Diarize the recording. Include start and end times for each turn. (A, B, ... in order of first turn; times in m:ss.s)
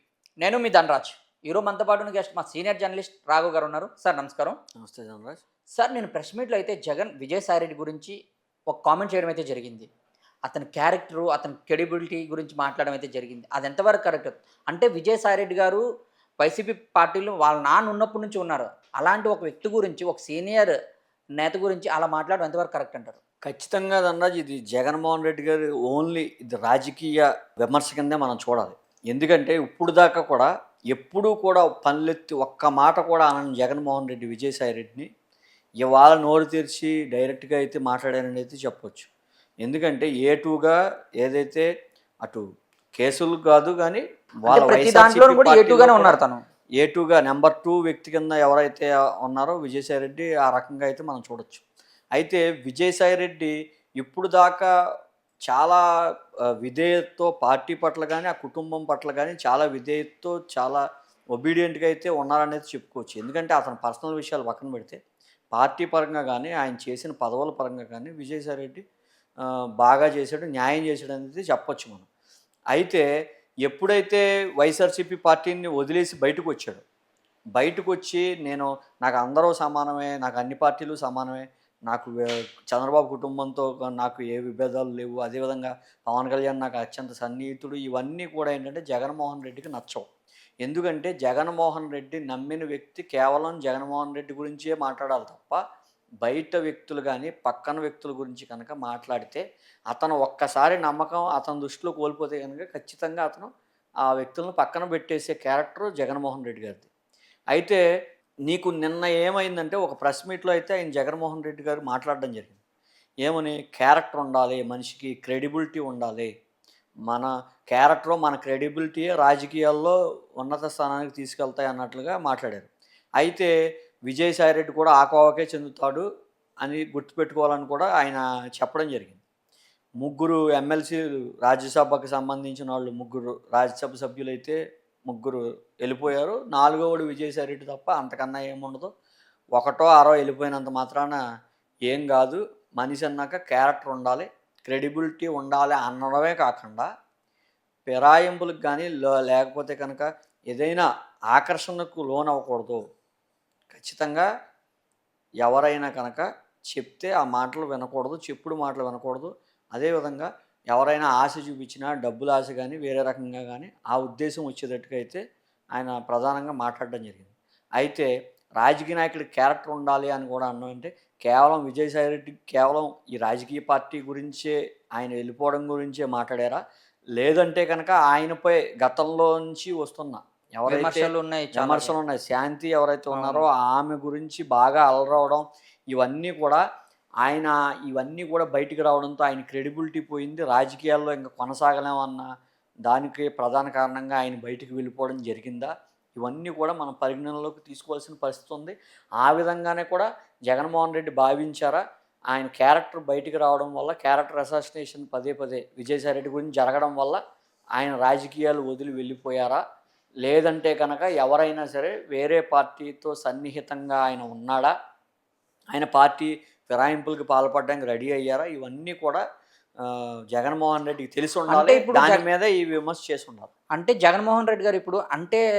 0:00.4-0:04.6 A
0:04.8-0:05.4 B
0:05.8-0:08.2 A
0:08.7-0:09.9 A
0:10.4-0:15.8 A
0:16.4-0:20.7 A
0:21.4-0:23.2 A
0:23.4-0:35.1 B
0:35.8-0:39.1 B
0:39.6-0:41.7 B
0:43.0-0:46.2 B
0:44.5-0:46.4 A
0:46.8-0:51.6 B
0:52.2-0:54.7 B
0:55.5-0:55.8 B
0:56.6-1:00.8 B
1:01.3-1:05.0 B
1:05.5-1:08.8 B
1:09.4-1:12.1 B
1:12.7-1:13.0 B
1:13.6-1:16.8 B
1:17.6-1:30.0 B
1:30.6-1:35.6 B
1:36.2-1:43.5 B
1:44.0-1:46.9 B
1:47.5-1:47.8 B
1:48.5-1:52.6 B
1:53.2-1:56.3 B
1:57.1-2:03.5 B
2:04.1-2:06.0 B
2:06.6-2:09.2 B
2:10.0-2:14.6 B
2:15.1-2:18.9 B
2:19.6-2:21.2 B
2:21.9-2:26.9 B
2:27.8-2:32.8 B
2:33.7-2:34.3 B
2:35.4-2:45.2 B
2:45.7-2:56.6 B
2:57.2-3:06.6 B
3:00.7-3:01.9 A
3:03.1-3:03.4 A
3:07.2-3:12.3 B
3:12.9-3:27.2 B
3:27.8-3:29.6 B
3:30.2-3:34.7 B
3:35.7-3:39.2 B
3:39.8-3:43.5 B
3:41.5-3:42.2 A
3:43.8-3:45.4 A